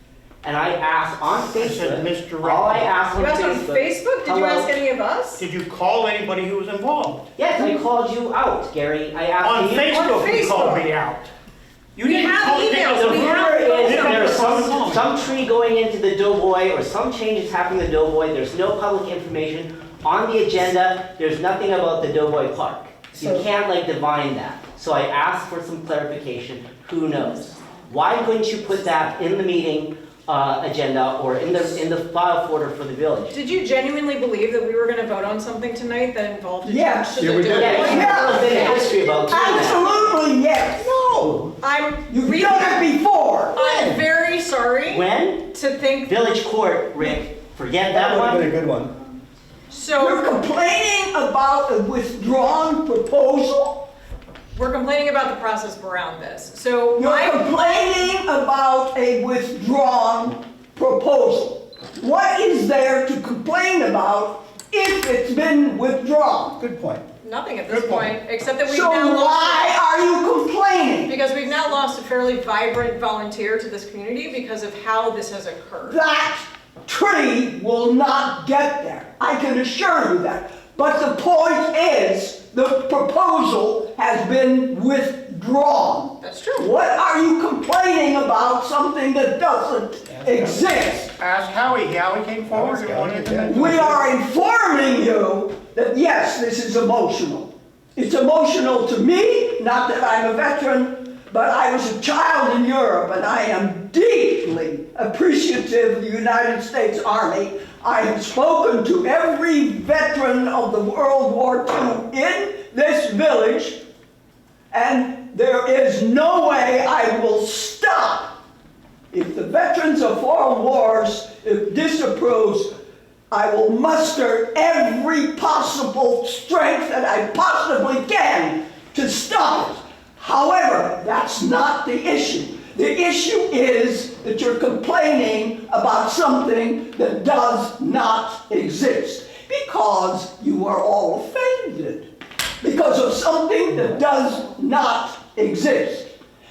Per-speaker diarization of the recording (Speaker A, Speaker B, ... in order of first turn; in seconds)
Speaker A: 0.4-4.7, 7.4-10.5, 12.8-33.4, 37.5-39.9, 44.9-45.5, 46.0-48.5
Speaker B: 1.5-2.9, 5.4-7.3, 9.4-11.3, 11.9-15.1, 91.1-94.0
Speaker C: 3.1-5.4, 9.9-10.9, 12.0-14.7, 33.3-39.9, 41.6-42.8, 43.5-46.5, 49.7-50.3, 54.5-57.4, 67.2-69.8, 71.0-76.0, 86.2-86.7
Speaker D: 23.1-23.5, 37.2-38.8, 40.8-41.5, 43.5-44.0, 47.9-49.0, 66.6-67.0, 67.7-68.1, 90.1-90.6, 92.5-94.0
Speaker E: 36.6-40.9, 42.1-43.6, 50.0-53.9, 57.0-66.6, 68.6-71.1, 75.8-91.1, 93.5-113.8, 114.7-118.4, 119.1-122.8, 123.3-142.1, 142.6-146.1